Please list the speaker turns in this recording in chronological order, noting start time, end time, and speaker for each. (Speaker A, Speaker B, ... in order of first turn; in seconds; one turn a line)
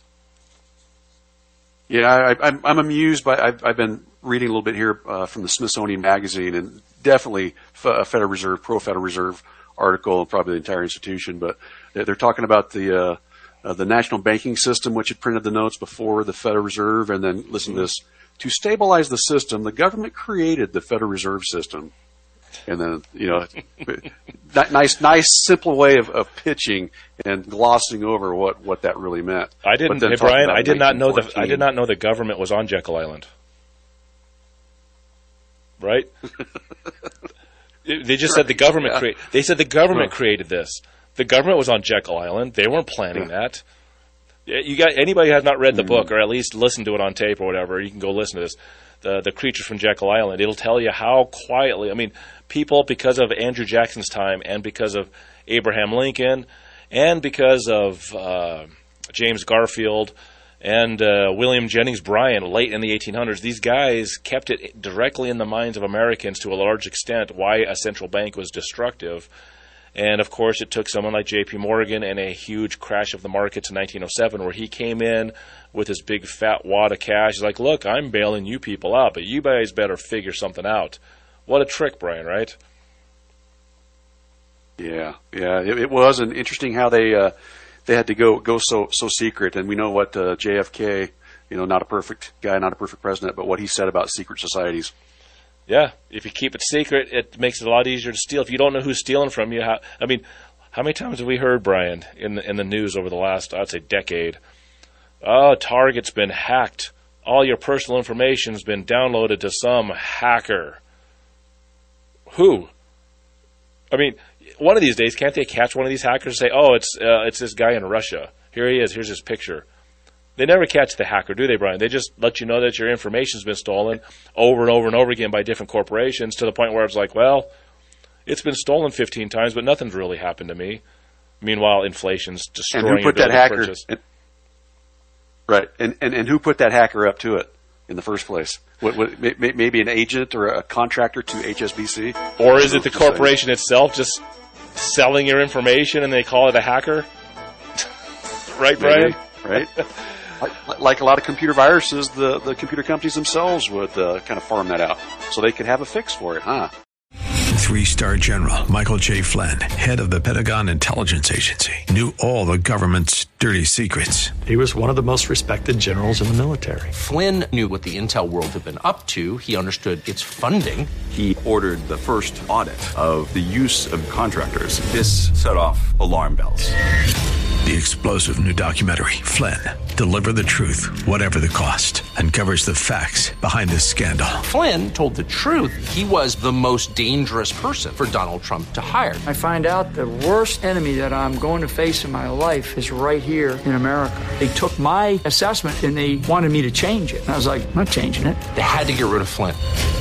Speaker A: 1.9-21.9
Speaker A: 22.6-31.7
Speaker B: 29.6-33.3
Speaker B: 35.8-36.1
Speaker B: 37.9-43.6
Speaker B: 44.5-69.3
Speaker B: 70.0-82.5
Speaker A: 84.8-87.3
Speaker A: 87.8-94.9
Speaker B: 95.7-104.4
Speaker B: 105.2-110.8
Speaker B: 112.3-112.7
Speaker B: 113.9-119.6
Speaker B: 120.4-127.5
Speaker B: 128.2-130.8
Speaker B: 131.4-133.8
Speaker A: 132.7-134.0
Speaker A: 135.5-143.3
Speaker B: 142.4-144.2
Speaker B: 144.7-147.1
Speaker B: 148.5-149.7
Speaker A: 148.8-149.7
Speaker A: 150.4-156.7
Speaker C: 157.5-164.4
Speaker D: 164.4-166.9
Speaker E: 166.9-170.9
Speaker F: 171.1-176.7
Speaker C: 177.6-184.4
Speaker E: 184.4-189.2
Speaker G: 189.2-198.4
Speaker E: 198.5-199.6